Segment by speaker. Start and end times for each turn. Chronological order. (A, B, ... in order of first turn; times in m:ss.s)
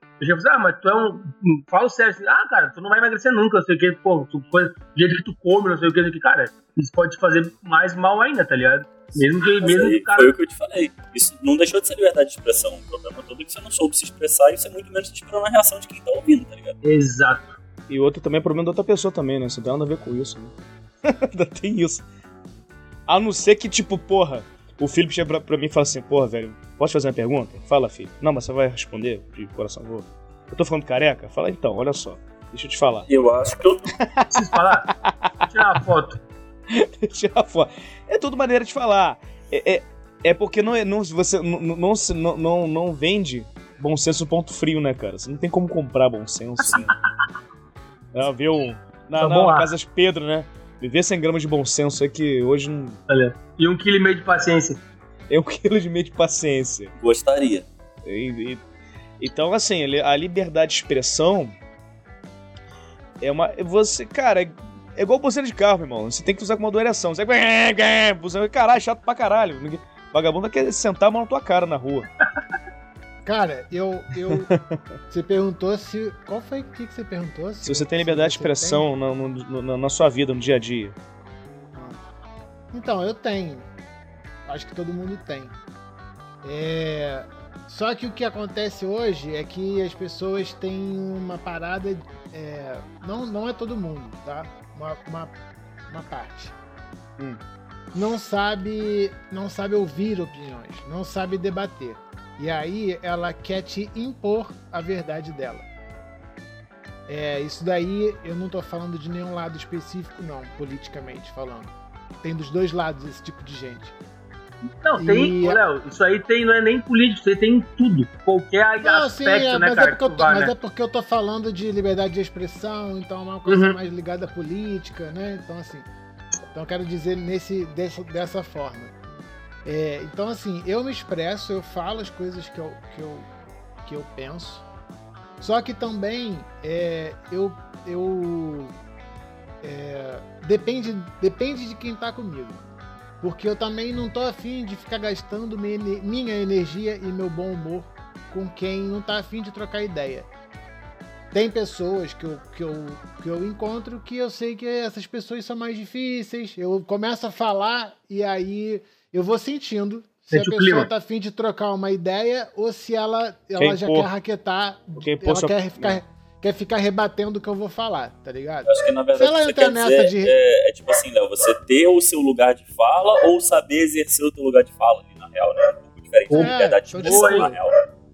0:00.2-0:10.3 A
0:09.5-0:16.8 B
0:16.8-0:17.6 A
0:17.9-0:22.0 C
0:23.1-0:33.1 C
0:33.1-0:33.9 B
0:34.0-0:35.5 C
0:34.3-0:34.9 A
0:35.5-0:36.2 A
0:36.7-0:46.9 C
0:46.6-0:46.9 B
0:48.1-0:53.0 C
0:49.2-0:49.7 A
0:53.1-0:54.8 A
0:55.3-0:56.9 C
0:57.0-0:57.7 B
0:58.0-0:58.6 C
0:59.2-1:01.6 C
1:03.2-1:12.1 C
1:13.2-1:18.9 D
1:14.3-1:14.6 C
1:17.6-1:21.0 C
1:21.7-1:22.0 D
1:22.7-1:23.7 D
1:24.5-1:25.6 D
1:26.4-1:35.4 D
1:35.9-1:36.6 D
1:37.9-1:45.7 D
1:47.1-1:54.0 D
1:54.8-2:00.5 A
1:55.0-1:55.6 D
1:58.8-2:05.9 D
2:03.5-2:03.8 A
2:06.5-2:08.9 D
2:09.6-2:13.3 D
2:13.8-2:14.6 D
2:15.4-2:18.8 D
2:19.6-2:22.6 D
2:23.2-2:30.3 D
2:31.3-2:50.4 D
2:40.3-2:40.9 A
2:43.6-2:44.1 C
2:45.0-2:46.0 C
2:48.7-2:57.8 B
2:56.3-2:57.5 A
2:56.3-2:57.6 D